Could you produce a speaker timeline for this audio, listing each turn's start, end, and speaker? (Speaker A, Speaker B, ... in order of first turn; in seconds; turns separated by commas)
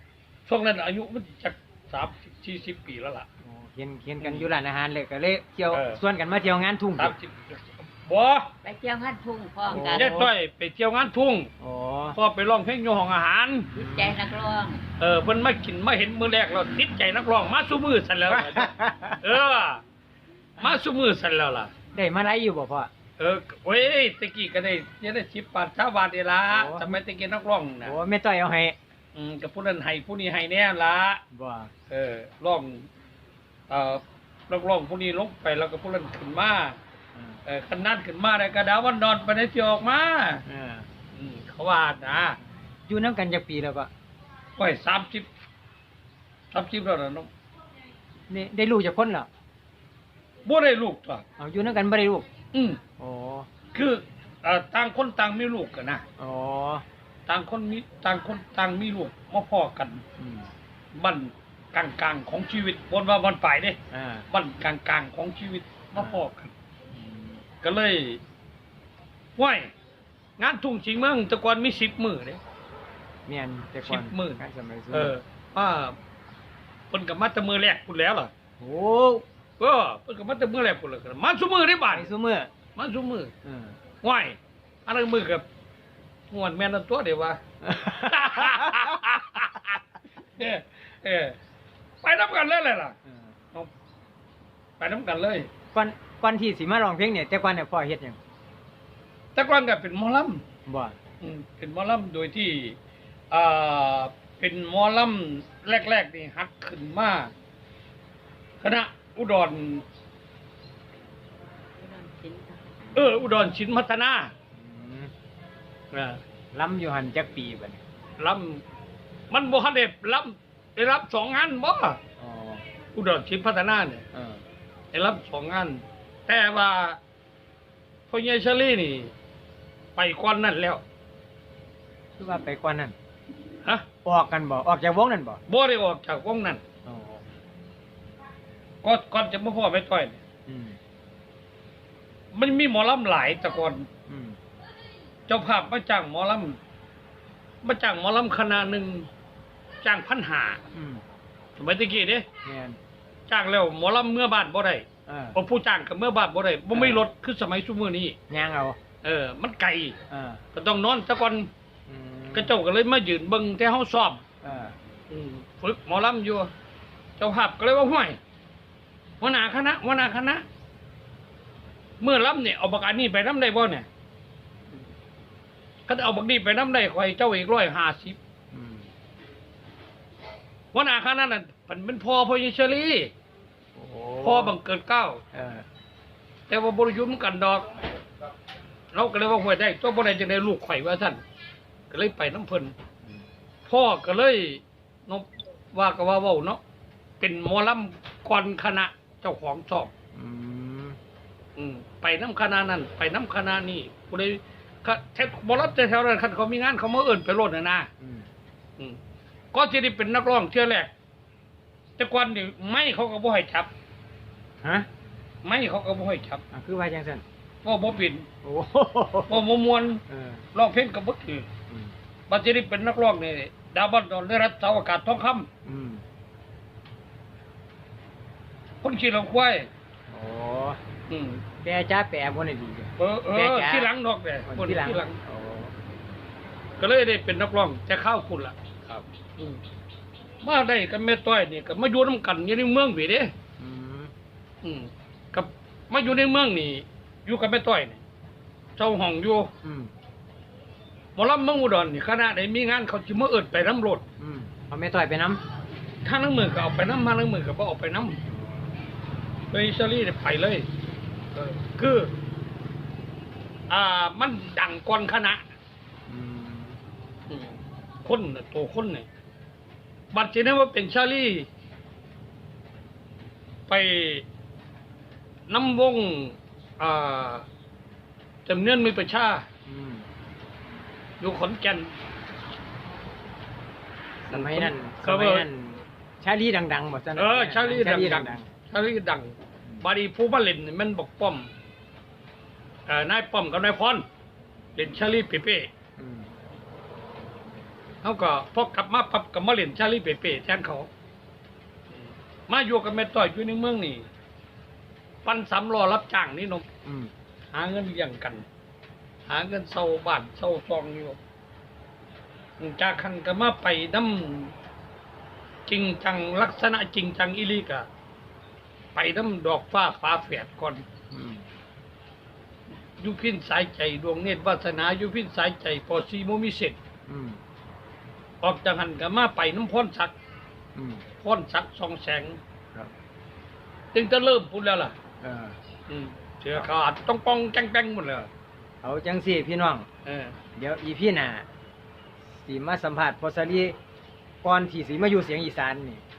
Speaker A: 0.5-3.3, Speaker B: 3.4-7.2, Speaker A: 4.2-4.5, Speaker A: 5.7-6.0, Speaker A: 7.0-8.5, Speaker C: 8.6-10.2, Speaker B: 9.7-10.3, Speaker A: 9.7-11.5, Speaker B: 11.6-12.2, Speaker A: 12.1-13.7, Speaker C: 13.7-14.8, Speaker B: 13.8-14.2, Speaker A: 15.0-19.8, Speaker B: 18.3-19.2, Speaker A: 20.6-21.7, Speaker B: 21.9-22.9, Speaker A: 23.2-28.0, Speaker B: 26.5-27.0, Speaker B: 27.8-28.8, Speaker A: 29.1-31.2, Speaker B: 31.3-31.7, Speaker A: 31.9-32.9, Speaker A: 33.7-36.8, Speaker A: 37.5-40.4, Speaker B: 40.5-40.9, Speaker A: 41.1-42.4, Speaker B: 42.9-43.9, Speaker A: 44.6-45.3, Speaker A: 46.5-47.3, Speaker B: 48.3-49.3, Speaker A: 50.5-51.2, Speaker B: 51.4-52.3, Speaker A: 52.5-52.8, Speaker B: 53.0-53.5, Speaker A: 53.7-56.0, Speaker B: 56.2-56.9, Speaker A: 57.3-60.0, Speaker B: 60.2-60.5, Speaker A: 60.9-63.8, Speaker B: 63.9-64.3, Speaker A: 64.3-66.5, Speaker B: 66.0-66.2, Speaker B: 66.9-67.4, Speaker A: 67.6-68.2, Speaker A: 69.4-69.7, Speaker A: 70.4-72.4, Speaker B: 73.3-75.2, Speaker A: 73.8-76.0, Speaker A: 76.9-78.3, Speaker B: 78.6-79.2, Speaker A: 79.6-82.1, Speaker B: 81.9-82.5, Speaker A: 82.8-83.3, Speaker B: 83.5-83.8, Speaker A: 84.0-85.5, Speaker A: 86.3-89.8, Speaker B: 87.6-89.0, Speaker A: 90.4-91.4, Speaker A: 92.0-93.0, Speaker A: 94.8-95.5, Speaker B: 95.7-98.2, Speaker A: 99.3-100.4, Speaker B: 100.7-101.0, Speaker A: 101.2-102.8, Speaker A: 103.3-107.3, Speaker A: 108.6-109.8, Speaker C: 111.8-113.1, Speaker A: 112.9-114.3, Speaker B: 114.5-115.1, Speaker A: 115.9-116.2, Speaker B: 116.5-117.8, Speaker A: 118.2-118.6, Speaker A: 119.3-122.0, Speaker B: 122.2-122.6, Speaker A: 122.9-124.0, Speaker B: 124.1-124.4, Speaker A: 124.9-127.0, Speaker A: 128.1-129.1, Speaker A: 130.0-130.8, Speaker B: 132.2-132.9, Speaker B: 134.1-135.4, Speaker A: 135.5-136.6, Speaker B: 136.8-137.2, Speaker A: 138.8-140.2, Speaker B: 140.5-140.8, Speaker A: 142.3-143.9, Speaker B: 144.1-144.4, Speaker A: 145.3-146.6, Speaker A: 147.6-149.1, Speaker A: 149.8-150.6, Speaker B: 150.7-151.0, Speaker A: 151.6-152.3, Speaker B: 152.4-152.8, Speaker A: 153.3-158.2, Speaker B: 155.1-155.4, Speaker B: 156.7-157.0, Speaker B: 158.3-158.8, Speaker A: 159.0-160.0, Speaker B: 160.1-160.4, Speaker A: 160.5-161.5, Speaker B: 161.9-162.6, Speaker A: 162.3-164.2, Speaker B: 164.4-164.8, Speaker A: 165.1-166.5, Speaker A: 167.2-168.2, Speaker A: 169.2-170.4, Speaker A: 172.0-173.9, Speaker A: 175.9-178.2, Speaker B: 178.5-178.9, Speaker A: 180.7-183.1, Speaker B: 183.8-184.6, Speaker A: 184.2-185.2, Speaker B: 185.3-185.7, Speaker A: 186.5-187.8, Speaker A: 188.9-191.2, Speaker A: 191.9-192.7, Speaker A: 193.7-196.6, Speaker A: 197.2-199.9, Speaker B: 200.1-201.0, Speaker A: 201.6-207.9, Speaker B: 208.0-208.3, Speaker A: 209.5-210.9, Speaker A: 212.0-213.7, Speaker B: 214.6-214.9, Speaker A: 215.4-216.4, Speaker B: 216.5-217.2, Speaker A: 217.6-218.3, Speaker B: 218.4-219.5, Speaker A: 219.3-220.0, Speaker B: 220.1-220.4, Speaker A: 220.5-221.5, Speaker A: 222.3-225.5, Speaker B: 225.7-226.0, Speaker A: 228.8-229.7, Speaker B: 230.1-230.8, Speaker A: 231.1-231.4, Speaker B: 231.6-233.9, Speaker A: 233.0-235.2, Speaker B: 234.5-235.7, Speaker A: 236.8-239.6, Speaker A: 240.4-243.3, Speaker B: 243.6-244.1, Speaker A: 244.6-248.0, Speaker A: 248.8-249.5, Speaker B: 249.6-249.9, Speaker A: 251.2-254.0, Speaker B: 254.2-255.4, Speaker A: 256.0-258.2, Speaker B: 258.3-258.7, Speaker A: 259.5-260.7, Speaker A: 261.4-262.1, Speaker A: 263.7-265.4, Speaker B: 266.1-266.8, Speaker A: 267.3-269.1, Speaker A: 270.1-271.5, Speaker A: 273.7-274.3, Speaker A: 275.5-277.5, Speaker A: 278.5-279.5, Speaker B: 279.7-280.1, Speaker A: 281.2-281.9, Speaker B: 284.2-288.5, Speaker A: 284.3-285.5, Speaker A: 287.1-291.5, Speaker A: 292.9-294.1, Speaker A: 294.8-295.7, Speaker B: 296.0-296.3, Speaker A: 298.0-300.9, Speaker A: 302.5-304.1, Speaker A: 305.2-306.7, Speaker B: 306.9-307.1, Speaker A: 307.5-308.5, Speaker A: 309.3-311.2, Speaker A: 312.6-314.5, Speaker A: 315.7-317.9, Speaker A: 318.9-320.8, Speaker B: 321.1-321.5, Speaker A: 323.0-326.8, Speaker B: 327.1-327.4, Speaker A: 328.4-330.1, Speaker B: 330.8-331.1, Speaker A: 331.2-332.4, Speaker A: 333.9-334.9, Speaker B: 335.2-335.6, Speaker A: 335.9-338.3, Speaker B: 338.8-339.9, Speaker A: 340.1-340.4, Speaker B: 340.6-341.5, Speaker B: 342.4-343.8, Speaker B: 344.4-346.0